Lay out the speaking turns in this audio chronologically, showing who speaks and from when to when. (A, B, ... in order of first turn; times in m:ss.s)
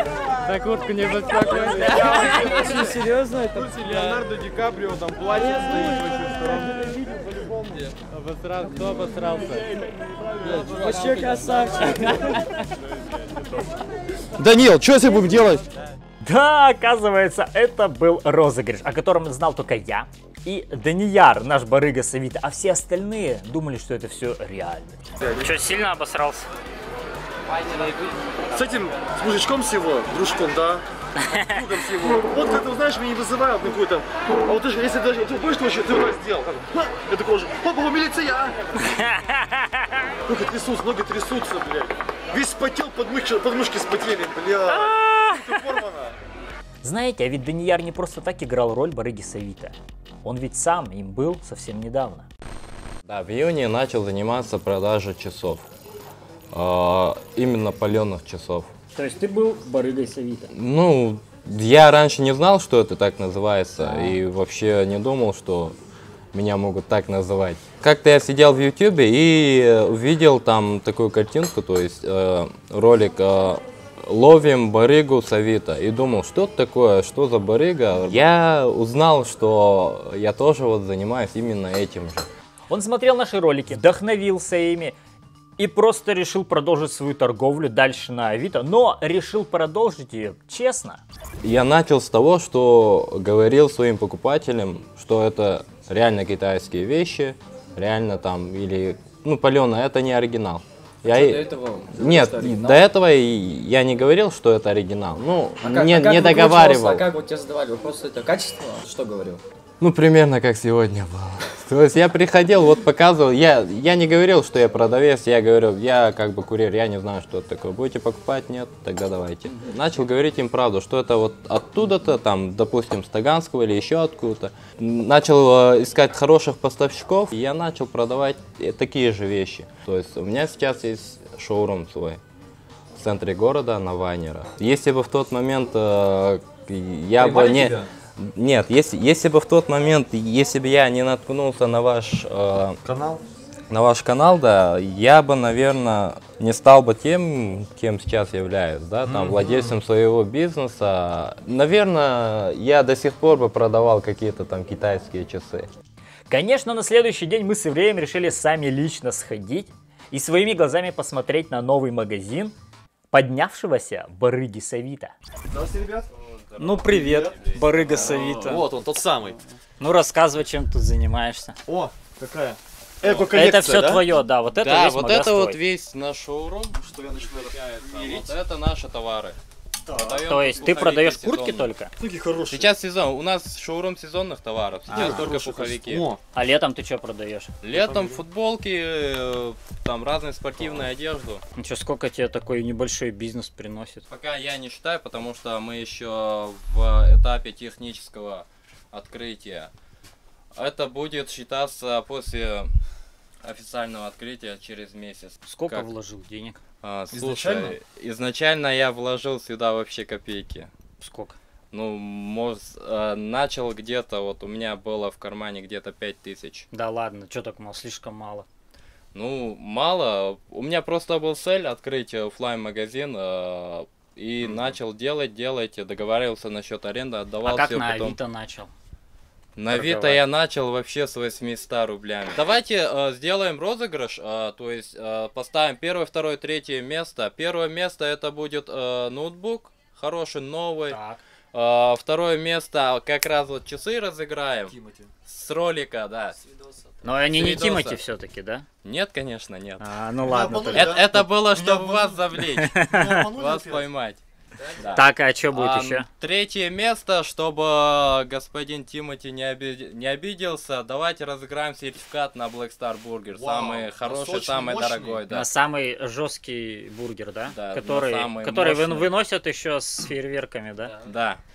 0:00.2-0:03.0 A
0:01.3-0:03.8 B
0:03.6-0:06.9 C
0:03.7-0:04.5 A
0:05.3-0:07.6 B
0:07.8-0:12.5 A
0:10.4-0:11.6 C
0:10.7-0:12.4 B
0:14.4-0:15.6 D
0:16.2-0:26.3 E
0:25.2-0:25.5 D
0:25.5-0:26.5 F
0:28.5-0:38.6 D
0:40.3-0:46.2 D
0:44.7-0:45.7 E
0:46.8-0:52.3 E
0:53.1-0:55.7 A
0:56.5-0:58.7 A
0:59.0-1:00.5 F
1:00.5-1:05.8 A
1:03.8-1:04.2 F
1:06.3-1:22.3 A
1:22.7-1:25.0 E
1:25.6-1:31.0 E
1:31.4-1:47.1 A
1:41.1-1:42.8 G
1:45.7-1:49.4 G
1:49.8-2:12.2 A
2:13.0-2:22.8 A
2:17.2-2:17.9 D
2:22.8-2:23.2 D
2:23.7-2:35.7 A
2:29.0-2:29.8 D
2:36.3-2:42.6 E
2:43.1-2:45.1 E
2:45.5-2:46.1 D
2:46.2-2:48.6 A
2:46.6-2:48.6 F
2:46.9-2:49.4 D
2:47.5-2:47.8 E
2:49.8-2:51.6 F
2:51.7-2:54.0 D
2:53.1-2:55.6 F
2:54.5-2:59.4 A
2:56.8-2:58.3 D
2:59.9-3:01.7 A
3:00.1-3:01.9 F
3:02.0-3:02.7 D
3:02.5-3:06.1 A
3:04.9-3:06.2 D
3:04.9-3:05.2 F
3:06.3-3:07.6 F
3:07.6-3:11.4 A
3:07.7-3:08.2 D
3:11.6-3:14.0 F
3:14.1-3:19.7 A
3:20.6-3:22.7 A
3:23.4-3:25.9 A
3:25.4-3:26.6 F
3:26.8-3:30.7 A
3:27.1-3:27.8 D
3:31.0-3:31.4 F
3:31.7-3:36.7 A
3:36.7-3:38.5 F
3:39.1-3:48.2 A
3:47.4-3:48.7 F
3:49.6-4:01.0 A
3:49.7-3:50.2 D
4:00.9-4:01.2 F
4:01.5-4:04.7 A
4:04.7-4:05.1 D
4:05.3-4:06.4 A
4:07.0-4:08.7 F
4:07.2-4:08.0 A
4:08.8-4:09.9 A
4:09.8-4:11.0 F
4:10.2-4:13.9 D
4:10.7-4:14.2 A
4:12.5-4:13.2 F
4:14.6-4:14.9 D
4:14.8-4:25.5 A
4:14.9-4:16.1 F
4:23.3-4:25.2 D
4:25.3-4:31.0 F
4:27.5-4:29.2 A
4:31.0-4:31.4 A